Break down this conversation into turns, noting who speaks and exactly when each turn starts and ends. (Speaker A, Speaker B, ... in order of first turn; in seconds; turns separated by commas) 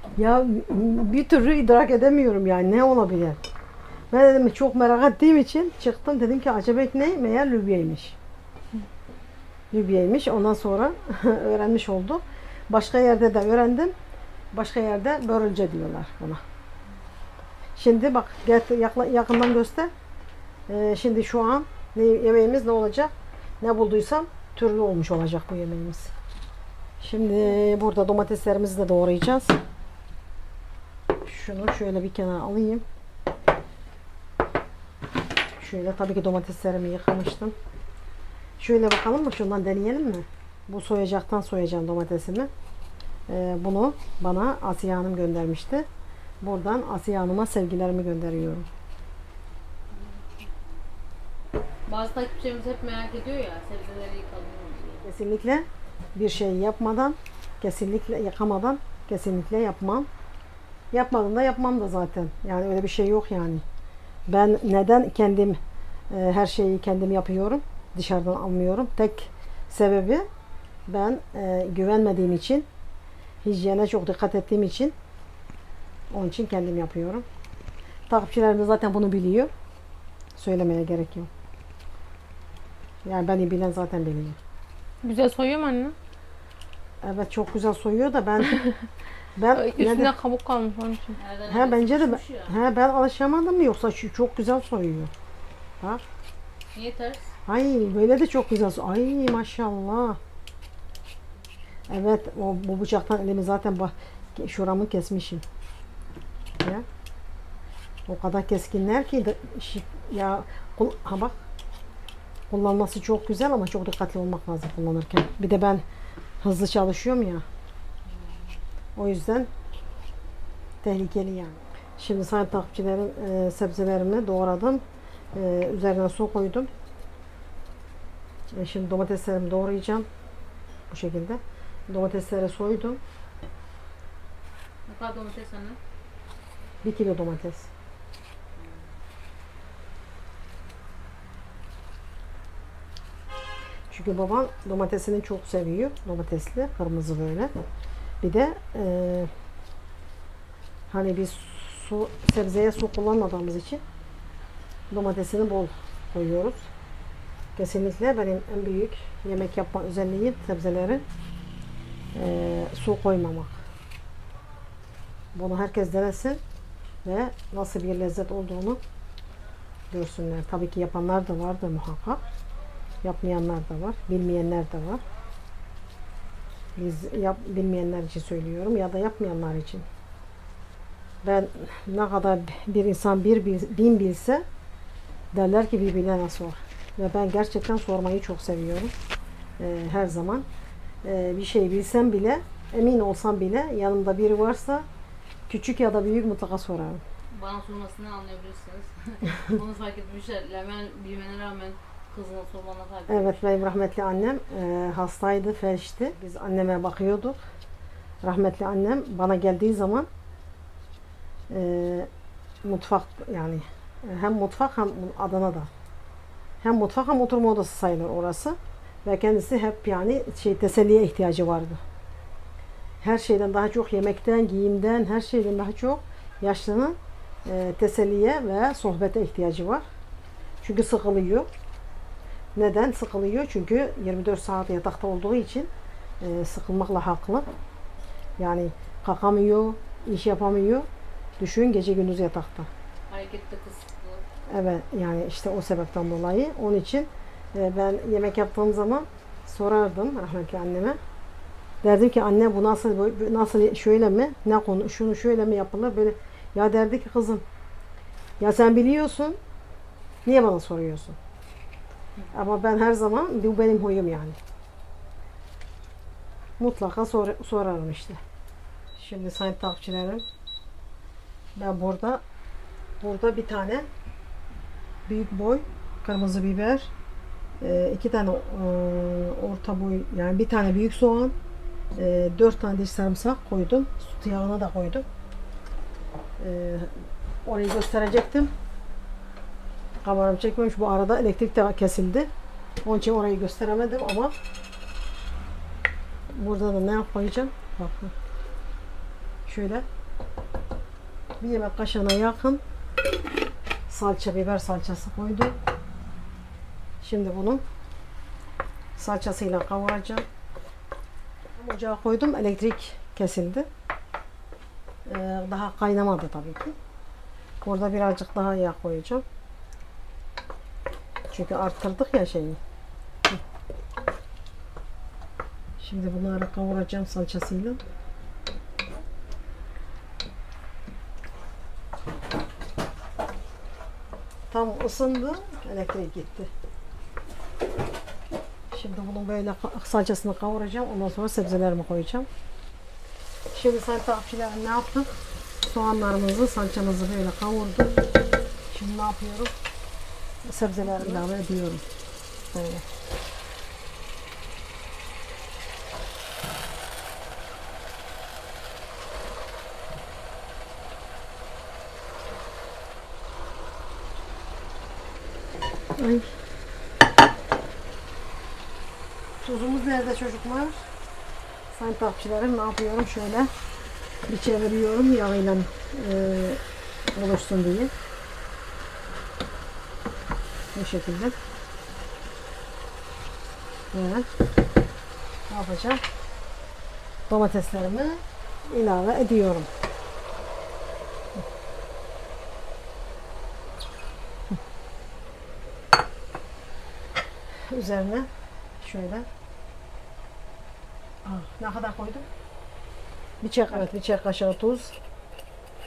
Speaker A: 0.2-3.4, Speaker A: 4.1-8.2, Speaker A: 9.7-13.9, Speaker A: 14.5-16.4, Speaker A: 17.8-19.9, Speaker A: 20.7-26.1, Speaker A: 27.0-29.6, Speaker A: 31.3-32.8, Speaker A: 35.6-37.5, Speaker A: 38.6-42.5, Speaker A: 43.3-45.9, Speaker A: 46.4-48.7, Speaker B: 49.9-50.5, Speaker B: 51.9-55.0, Speaker A: 55.0-60.1, Speaker A: 60.9-63.6, Speaker A: 64.3-65.6, Speaker A: 66.1-70.2, Speaker A: 70.9-72.7, Speaker A: 73.4-75.0, Speaker A: 76.1-77.2, Speaker A: 78.1-79.5, Speaker A: 80.4-81.3, Speaker A: 83.1-84.4, Speaker C: 85.0-86.0, Speaker A: 87.0-88.7, Speaker A: 89.4-90.1, Speaker C: 89.5-91.2, Speaker B: 91.2-92.5, Speaker A: 91.5-95.1, Speaker B: 96.8-97.3, Speaker A: 97.5-100.2, Speaker A: 101.9-105.4, Speaker A: 108.1-111.4, Speaker A: 112.5-115.8, Speaker A: 116.4-117.5, Speaker B: 118.1-118.5, Speaker A: 119.0-119.5, Speaker A: 120.8-124.8, Speaker A: 125.3-126.7, Speaker A: 128.5-130.1, Speaker A: 130.9-133.0, Speaker B: 134.9-135.8, Speaker A: 136.8-137.7, Speaker B: 138.6-138.9, Speaker A: 143.9-147.5, Speaker A: 148.2-149.3, Speaker A: 150.9-153.8, Speaker A: 154.9-156.7, Speaker A: 157.6-161.0, Speaker A: 162.2-163.6, Speaker A: 165.3-166.4, Speaker A: 167.1-168.8, Speaker A: 169.9-172.2, Speaker A: 173.0-175.0, Speaker A: 176.8-179.8, Speaker A: 181.2-184.4, Speaker A: 185.3-188.9, Speaker A: 189.6-190.5, Speaker A: 191.0-194.9, Speaker A: 195.5-197.0, Speaker B: 197.3-203.4, Speaker A: 203.1-207.4, Speaker A: 208.2-210.1, Speaker A: 211.5-212.1, Speaker A: 212.6-215.7, Speaker A: 216.6-221.8, Speaker A: 223.0-229.8, Speaker A: 230.6-231.5, Speaker A: 232.6-235.7, Speaker A: 236.2-237.5, Speaker A: 238.4-240.9, Speaker A: 241.4-242.7, Speaker B: 243.1-244.2, Speaker A: 244.5-251.0, Speaker A: 251.8-257.4, Speaker A: 258.4-259.4, Speaker A: 260.2-261.2, Speaker A: 262.3-264.4, Speaker A: 266.6-268.2, Speaker A: 269.0-270.2, Speaker A: 271.6-272.2, Speaker A: 273.0-273.9, Speaker A: 275.1-276.9, Speaker A: 277.6-281.4, Speaker A: 282.0-285.1, Speaker A: 286.4-288.5, Speaker A: 290.0-292.3, Speaker A: 292.9-294.4, Speaker A: 296.3-298.1, Speaker A: 299.5-299.9, Speaker A: 301.4-302.6, Speaker A: 303.9-305.6, Speaker A: 307.0-307.6, Speaker A: 309.0-310.3, Speaker A: 311.6-313.7, Speaker A: 315.1-316.8, Speaker A: 317.6-319.2, Speaker A: 321.3-322.6, Speaker A: 325.8-327.8, Speaker A: 334.5-336.5, Speaker A: 338.7-342.3, Speaker A: 343.5-347.9, Speaker A: 348.7-349.5, Speaker A: 350.4-351.8, Speaker A: 352.5-352.8, Speaker A: 366.0-366.3, Speaker A: 369.4-370.9, Speaker A: 371.7-373.5, Speaker A: 374.3-376.6, Speaker A: 377.1-377.9, Speaker A: 380.8-381.4, Speaker A: 383.9-384.3, Speaker A: 385.5-386.0, Speaker A: 387.3-389.7, Speaker A: 397.7-398.3, Speaker A: 398.8-399.3, Speaker A: 401.2-402.3, Speaker A: 403.4-404.9